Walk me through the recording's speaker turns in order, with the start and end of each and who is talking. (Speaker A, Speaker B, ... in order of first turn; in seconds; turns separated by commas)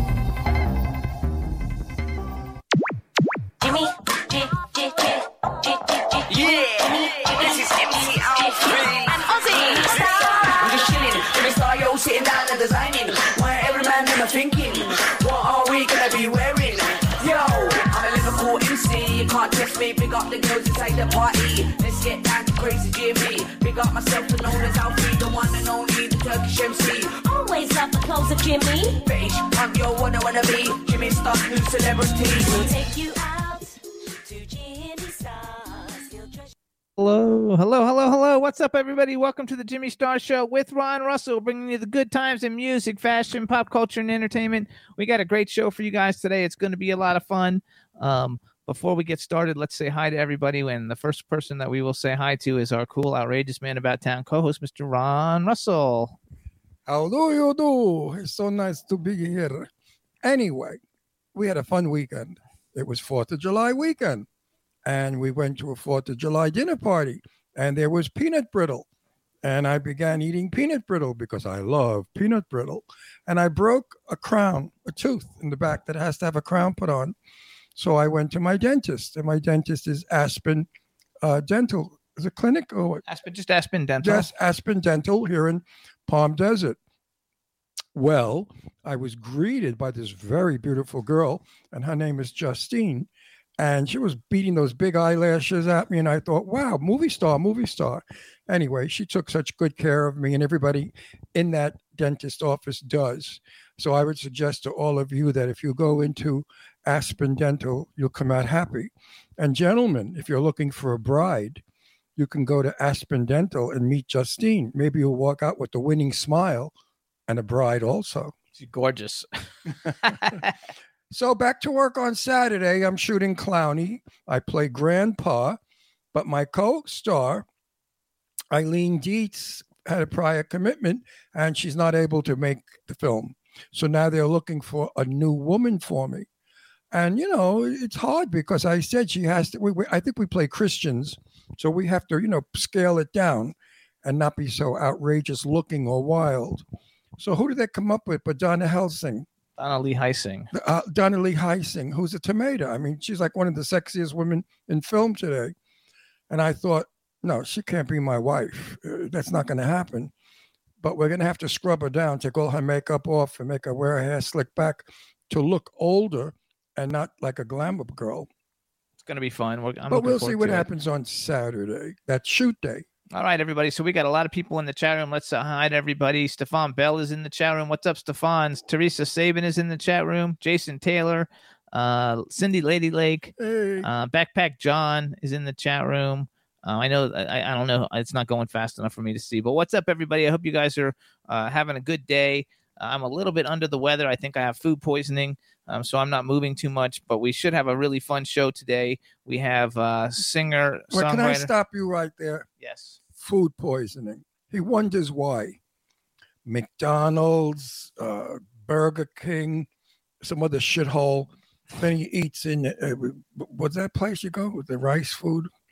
Speaker A: 3.6-10.6, Speaker B: 6.3-27.2, Speaker A: 27.2-29.0, Speaker B: 29.0-32.7, Speaker A: 32.4-36.5, Speaker C: 37.0-56.2, Speaker D: 56.9-59.7, Speaker D: 60.2-60.8, Speaker D: 61.3-64.3, Speaker D: 64.8-68.8, Speaker D: 69.4-77.1, Speaker D: 77.8-80.7, Speaker D: 81.2-83.0, Speaker C: 83.1-84.3, Speaker D: 84.0-86.8, Speaker D: 87.9-111.6, Speaker D: 112.2-116.7, Speaker D: 117.3-118.3, Speaker C: 118.5-120.5, Speaker D: 121.1-125.6, Speaker D: 126.1-127.5, Speaker D: 128.5-136.3, Speaker D: 136.9-146.6, Speaker D: 147.2-149.3, Speaker C: 149.6-150.5, Speaker D: 150.5-155.5, Speaker D: 156.3-160.1, Speaker D: 160.8-168.3, Speaker C: 169.0-170.7, Speaker D: 169.9-172.8, Speaker C: 173.1-201.5, Speaker D: 183.4-183.9, Speaker D: 200.9-202.4, Speaker C: 202.6-203.0, Speaker D: 203.2-205.6, Speaker D: 206.4-209.7, Speaker D: 210.2-215.5